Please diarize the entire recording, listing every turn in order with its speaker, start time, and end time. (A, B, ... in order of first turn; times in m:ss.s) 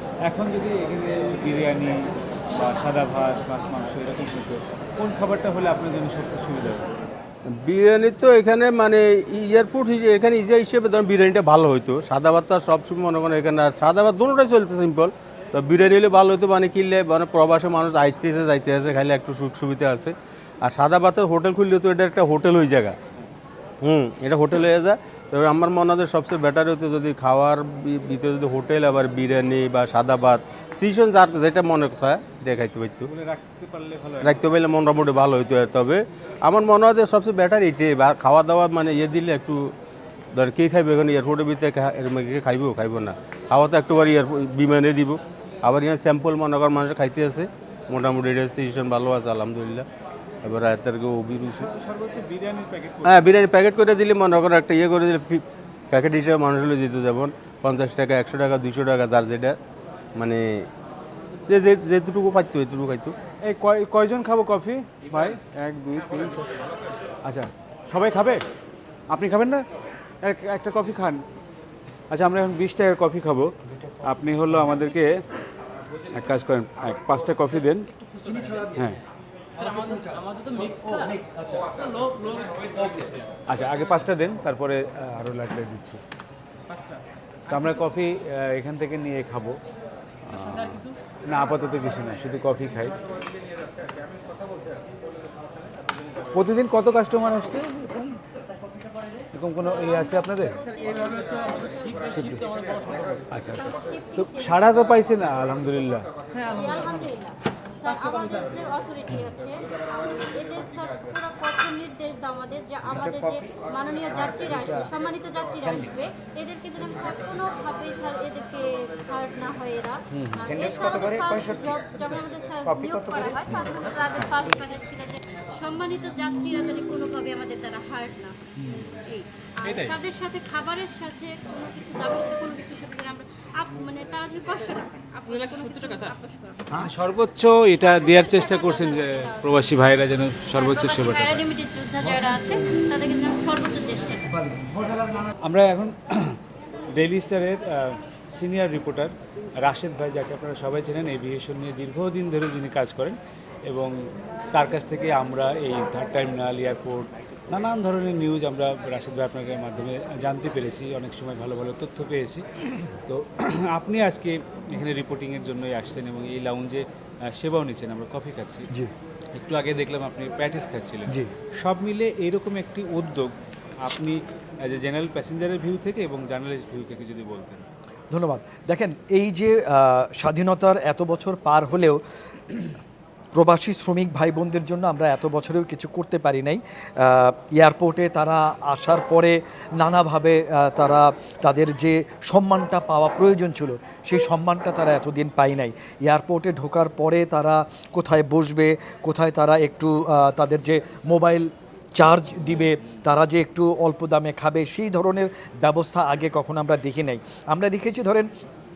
0:00.3-0:06.9 A
0:07.5-0:23.0 B
0:23.8-0:33.1 B
0:33.1-0:34.4 A
0:34.2-0:39.7 B
0:40.3-0:49.8 B
0:50.4-0:51.7 B
0:51.5-0:53.3 A
0:53.0-0:59.6 B
1:00.2-1:00.7 B
1:01.5-1:03.1 B
1:03.4-1:06.4 A
1:07.2-1:08.4 A
1:09.1-1:09.6 A
1:10.2-1:11.2 A
1:12.1-1:13.5 A
1:14.0-1:15.2 A
1:16.1-1:17.9 A
1:18.2-1:18.9 C
1:19.5-1:23.2 C
1:23.5-1:26.0 A
1:27.5-1:29.6 A
1:30.2-1:33.0 A
1:36.3-1:38.2 A
1:39.3-1:40.6 A
1:40.3-1:42.0 D
1:42.0-1:42.4 A
1:43.3-1:46.0 A
1:43.5-1:44.9 D
1:46.4-2:16.8 D
1:53.0-1:53.3 C
2:00.1-2:00.6 A
2:00.7-2:01.2 C
2:09.6-2:10.0 A
2:16.7-2:21.4 A
2:17.8-2:19.6 D
2:20.5-2:24.4 D
2:24.4-2:26.4 A
2:27.0-2:33.2 A
2:33.7-2:33.9 A
2:34.5-2:42.5 A
2:43.0-2:48.7 A
2:49.3-2:57.6 A
2:51.1-2:51.3 C
2:58.1-3:02.0 C
3:03.3-3:28.3 C